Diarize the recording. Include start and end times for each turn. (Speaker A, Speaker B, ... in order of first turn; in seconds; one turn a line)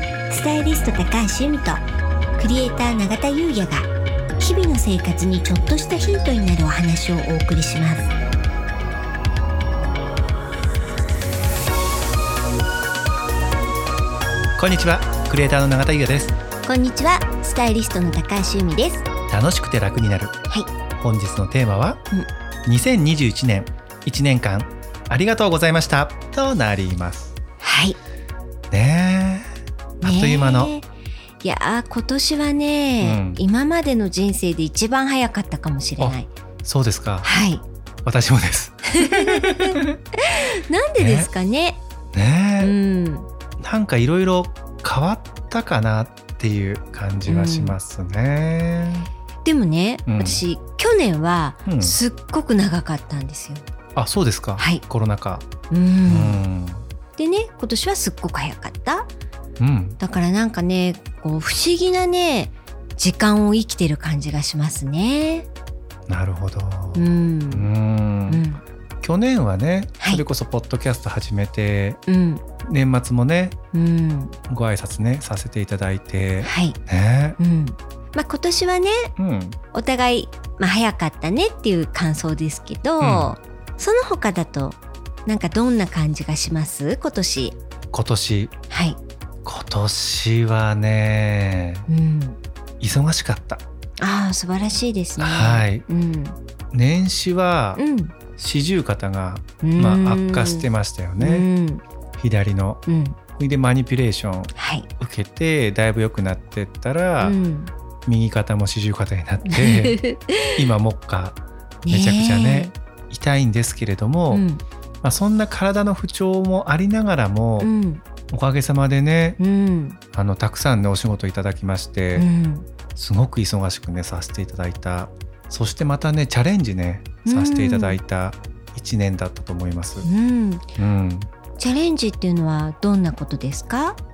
Speaker A: 0.3-1.8
Speaker A: 2.4-8.1
Speaker B: 14.6-16.4
Speaker A: 16.6-19.1
Speaker B: 19.3-20.3
Speaker B: 21.0-22.0
Speaker B: 22.7-27.3
Speaker A: 27.6-28.0
Speaker B: 28.7-29.5
Speaker A: 30.0-30.9
Speaker B: 30.0-30.7
Speaker A: 31.4-36.3
Speaker B: 33.0-33.4
Speaker B: 36.0-37.3
Speaker A: 37.2-37.6
Speaker B: 38.0-39.9
Speaker A: 38.9-41.8
Speaker B: 41.0-41.3
Speaker B: 42.1-42.8
Speaker A: 42.6-43.3
Speaker B: 43.6-49.1
Speaker A: 47.3-47.8
Speaker A: 49.4-53.7
Speaker B: 50.1-50.4
Speaker B: 51.7-52.0
Speaker B: 54.0-55.5
Speaker A: 54.6-54.8
Speaker A: 55.7-56.4
Speaker B: 56.1-56.8
Speaker A: 57.2-59.1
Speaker B: 59.6-60.0
Speaker A: 60.0-65.5
Speaker B: 66.1-68.4
Speaker A: 67.0-67.7
Speaker A: 68.3-68.6
Speaker B: 69.0-72.0
Speaker A: 72.1-72.4
Speaker B: 72.6-73.6
Speaker A: 73.7-74.3
Speaker B: 74.5-77.4
Speaker A: 76.4-76.8
Speaker A: 77.4-79.1
Speaker B: 79.2-79.6
Speaker A: 79.7-87.6
Speaker B: 83.0-83.3
Speaker B: 87.9-88.5
Speaker A: 88.7-89.0
Speaker B: 89.5-91.9
Speaker A: 91.9-92.4
Speaker B: 92.8-93.6
Speaker A: 94.0-96.4
Speaker B: 95.2-95.8
Speaker B: 96.7-97.8
Speaker A: 97.8-98.1
Speaker B: 98.4-101.5
Speaker A: 99.6-100.7
Speaker A: 101.2-101.8
Speaker B: 102.2-102.8
Speaker A: 102.9-103.2
Speaker B: 103.4-107.4
Speaker A: 104.5-104.9
Speaker A: 107.2-107.7
Speaker B: 108.1-110.0
Speaker A: 109.5-110.6
Speaker B: 110.6-114.5
Speaker A: 111.9-112.7
Speaker A: 114.3-114.6
Speaker B: 115.0-117.7
Speaker A: 117.6-118.0
Speaker B: 118.3-119.4
Speaker A: 119.4-120.0
Speaker B: 120.1-122.3
Speaker A: 122.2-122.7
Speaker B: 123.0-130.1
Speaker A: 127.2-128.0
Speaker A: 130.0-130.7
Speaker B: 130.8-131.3
Speaker A: 131.6-134.0